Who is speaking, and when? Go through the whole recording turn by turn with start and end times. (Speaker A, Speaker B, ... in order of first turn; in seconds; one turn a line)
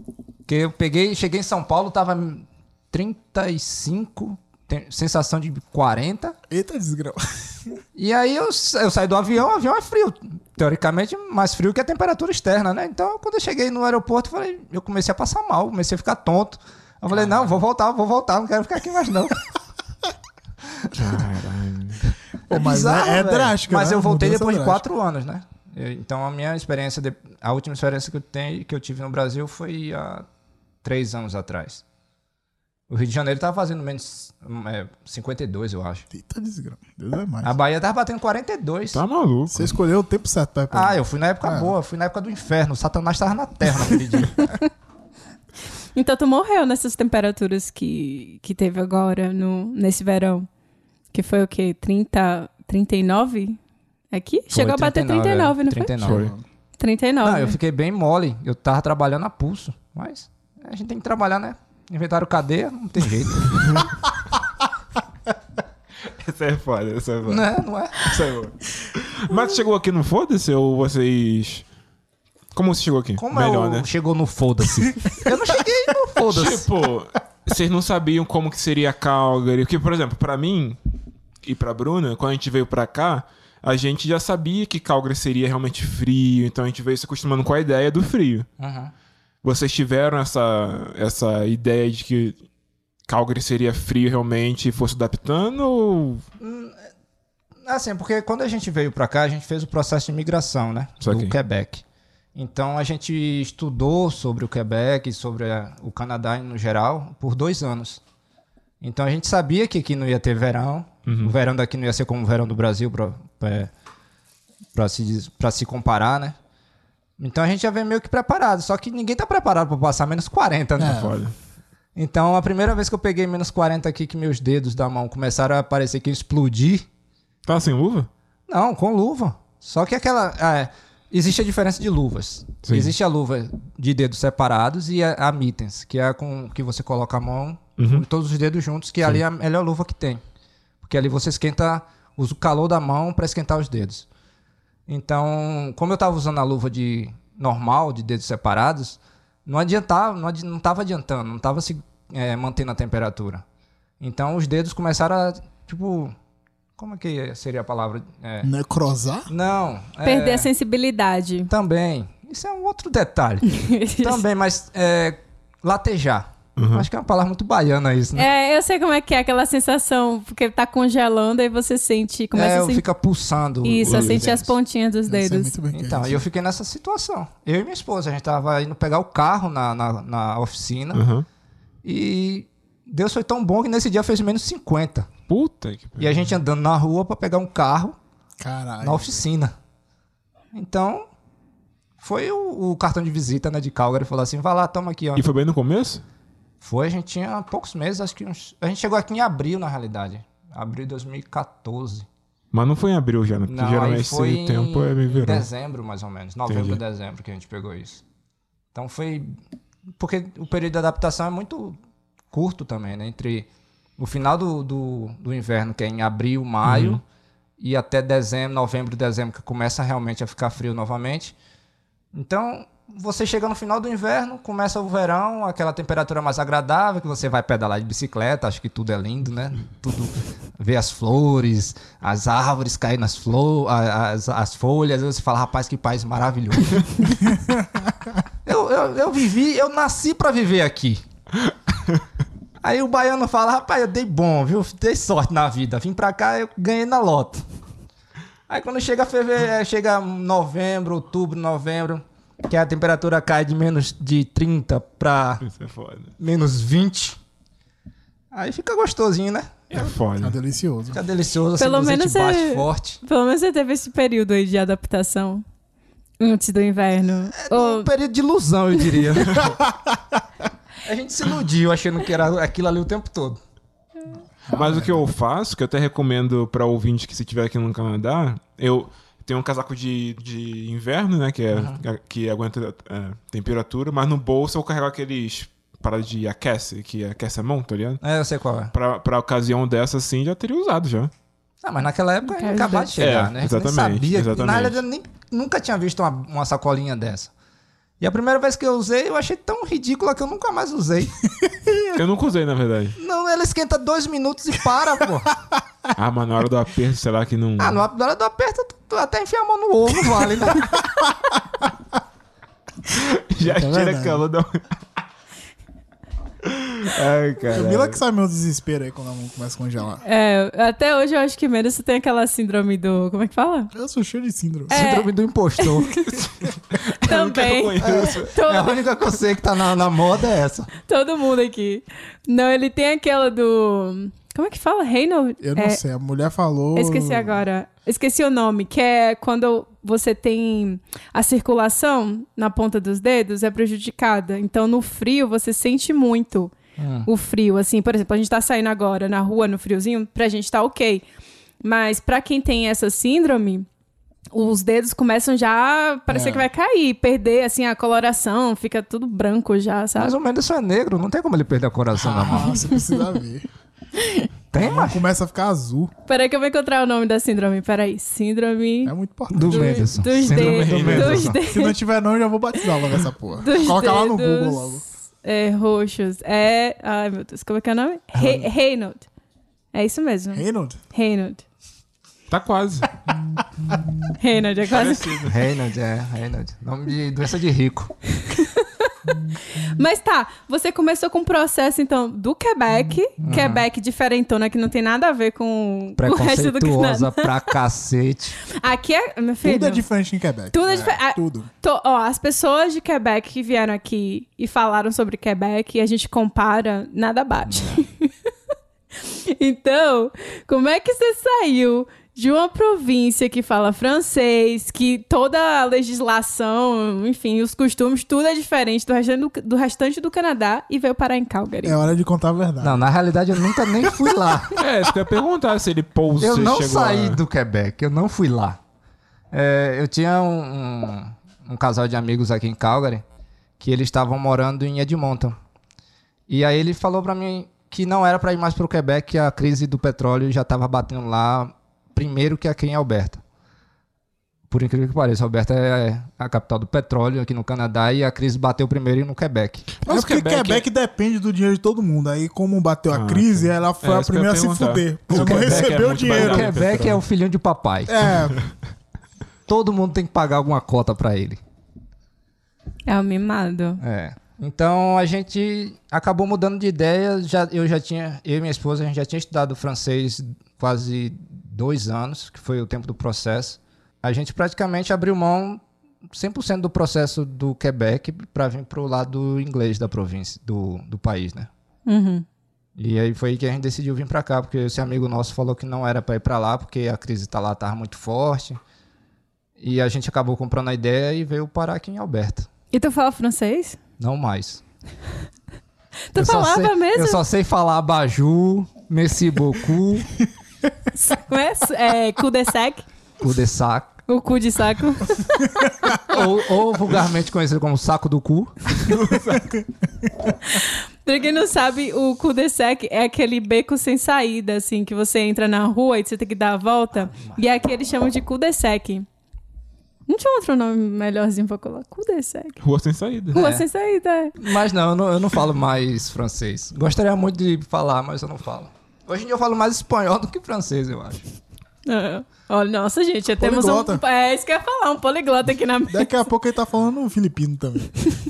Speaker A: 0.5-6.4
Speaker B: 6.5-7.8
Speaker A: 8.0-19.4
Speaker C: 20.9-22.0
Speaker B: 22.5-24.9
Speaker A: 22.5-30.3
Speaker A: 30.8-31.8
Speaker A: 32.9-36.1
Speaker B: 36.1-37.5
Speaker A: 37.4-39.0
Speaker C: 38.9-39.7
Speaker B: 39.5-41.7
Speaker A: 40.7-44.7
Speaker D: 46.0-50.5
Speaker D: 51.1-53.6
Speaker D: 54.1-56.0
Speaker A: 54.5-56.4
Speaker C: 56.0-56.3
Speaker B: 56.1-56.4
Speaker D: 56.8-57.6
Speaker A: 57.2-63.9
Speaker C: 66.1-71.7
Speaker A: 67.3-68.2
Speaker C: 72.5-73.9
Speaker A: 73.2-76.7
Speaker C: 76.2-80.8
Speaker C: 81.4-88.5
Speaker A: 88.6-88.9
Speaker C: 89.4-92.4
Speaker C: 93.1-96.2
Speaker A: 96.4-96.8
Speaker A: 97.6-101.8
Speaker C: 101.0-101.4
Speaker A: 102.3-108.0
Speaker A: 108.8-113.7
Speaker C: 111.1-111.3
Speaker A: 114.7-116.4
Speaker A: 117.2-121.2
Speaker B: 120.8-121.1
Speaker C: 120.8-121.3
Speaker A: 122.0-126.9
Speaker C: 127.5-128.1
Speaker A: 128.5-140.2
Speaker C: 132.7-132.9
Speaker C: 137.8-138.1
Speaker A: 140.8-144.1
Speaker A: 144.9-153.4
Speaker A: 154.0-156.1
Speaker A: 156.8-158.5
Speaker B: 158.4-159.3
Speaker A: 159.3-160.5
Speaker D: 160.0-161.5
Speaker A: 161.5-163.5
Speaker D: 163.5-164.2
Speaker A: 164.0-168.3
Speaker C: 166.6-166.9
Speaker D: 168.2-172.8
Speaker A: 172.3-174.5
Speaker D: 173.6-175.6
Speaker C: 173.8-174.3
Speaker B: 175.1-176.3
Speaker A: 175.7-181.1
Speaker C: 180.9-181.2
Speaker A: 181.8-185.1
Speaker C: 185.3-186.4
Speaker A: 186.0-188.0
Speaker B: 188.4-189.2
Speaker A: 188.8-189.6
Speaker A: 190.5-191.1
Speaker A: 192.0-195.2
Speaker C: 195.2-196.0
Speaker A: 196.6-202.1
Speaker C: 202.5-205.5
Speaker A: 203.5-208.0
Speaker C: 206.5-206.8
Speaker A: 208.7-209.4
Speaker A: 210.0-211.8
Speaker A: 212.3-217.0
Speaker C: 216.6-217.0
Speaker A: 217.6-221.3
Speaker A: 222.1-237.3
Speaker A: 238.4-241.0
Speaker A: 242.6-247.4
Speaker A: 248.5-255.4
Speaker C: 255.4-256.1
Speaker A: 256.2-257.2
Speaker A: 258.3-259.7
Speaker C: 259.7-260.4
Speaker B: 260.2-261.0
Speaker A: 260.9-263.0
Speaker D: 261.6-265.4
Speaker D: 266.2-267.9
Speaker A: 267.4-269.6
Speaker B: 269.4-270.2
Speaker A: 270.8-273.4
Speaker B: 274.5-275.1
Speaker C: 274.5-288.0
Speaker A: 281.5-281.8
Speaker A: 288.0-288.7
Speaker C: 288.7-291.1
Speaker A: 291.6-297.3
Speaker D: 292.3-292.9
Speaker C: 292.9-294.8
Speaker A: 298.0-301.2
Speaker C: 301.9-303.0
Speaker A: 303.0-305.4
Speaker C: 305.9-307.8
Speaker A: 307.6-311.0
Speaker C: 312.9-314.6
Speaker B: 313.4-314.2
Speaker C: 316.4-318.0
Speaker B: 317.5-320.0
Speaker D: 320.0-323.7
Speaker B: 323.7-324.9
Speaker A: 324.7-326.3
Speaker D: 324.7-326.2
Speaker C: 326.7-328.3
Speaker D: 327.0-328.8
Speaker A: 327.8-330.7
Speaker D: 330.9-335.8
Speaker B: 335.4-337.4
Speaker D: 336.8-351.1
Speaker A: 346.8-347.1
Speaker D: 351.6-353.7
Speaker D: 354.3-360.1
Speaker B: 356.1-356.5
Speaker A: 360.0-362.7
Speaker B: 361.9-363.5
Speaker D: 364.0-364.3
Speaker A: 364.5-365.0
Speaker B: 364.6-365.9
Speaker D: 366.1-368.9
Speaker B: 368.9-370.0
Speaker A: 369.3-371.4
Speaker D: 369.5-371.8
Speaker C: 370.2-371.3
Speaker B: 371.4-374.8
Speaker D: 373.4-379.1
Speaker A: 378.1-378.5
Speaker D: 379.7-381.4
Speaker B: 380.3-380.8
Speaker C: 382.3-383.0
Speaker B: 383.4-383.8
Speaker D: 384.2-385.1
Speaker C: 384.7-385.4
Speaker A: 385.2-387.9
Speaker D: 388.2-389.0
Speaker D: 389.5-397.5
Speaker A: 393.2-393.7
Speaker A: 396.0-398.4
Speaker D: 398.5-399.9
Speaker B: 399.4-401.5
Speaker D: 400.5-408.1
Speaker A: 407.5-407.8
Speaker D: 409.0-421.8
Speaker B: 421.6-422.9
Speaker A: 422.6-424.6
Speaker B: 423.5-423.8
Speaker C: 424.6-427.2
Speaker A: 426.2-428.6
Speaker A: 429.3-433.1
Speaker A: 433.6-435.4
Speaker A: 436.3-443.2
Speaker A: 444.5-449.8
Speaker C: 449.8-450.6
Speaker B: 449.9-456.6
Speaker C: 452.9-457.0
Speaker A: 455.1-458.1
Speaker B: 457.9-458.4
Speaker A: 459.5-461.4
Speaker D: 462.9-463.8
Speaker A: 463.8-481.5
Speaker D: 481.9-482.2
Speaker A: 482.8-488.6
Speaker A: 489.6-492.5
Speaker D: 492.7-493.8
Speaker A: 494.0-494.6
Speaker D: 496.1-497.2
Speaker A: 496.2-500.1
Speaker D: 500.9-502.9
Speaker A: 503.2-503.9
Speaker D: 504.1-506.2
Speaker A: 505.9-508.7
Speaker C: 508.8-509.5
Speaker D: 510.4-519.1
Speaker A: 517.1-517.4
Speaker D: 520.1-522.6
Speaker C: 522.6-523.4
Speaker D: 523.3-524.5
Speaker A: 523.3-523.7
Speaker A: 524.4-531.2
Speaker D: 531.9-536.1
Speaker B: 533.4-534.0
Speaker B: 535.9-537.9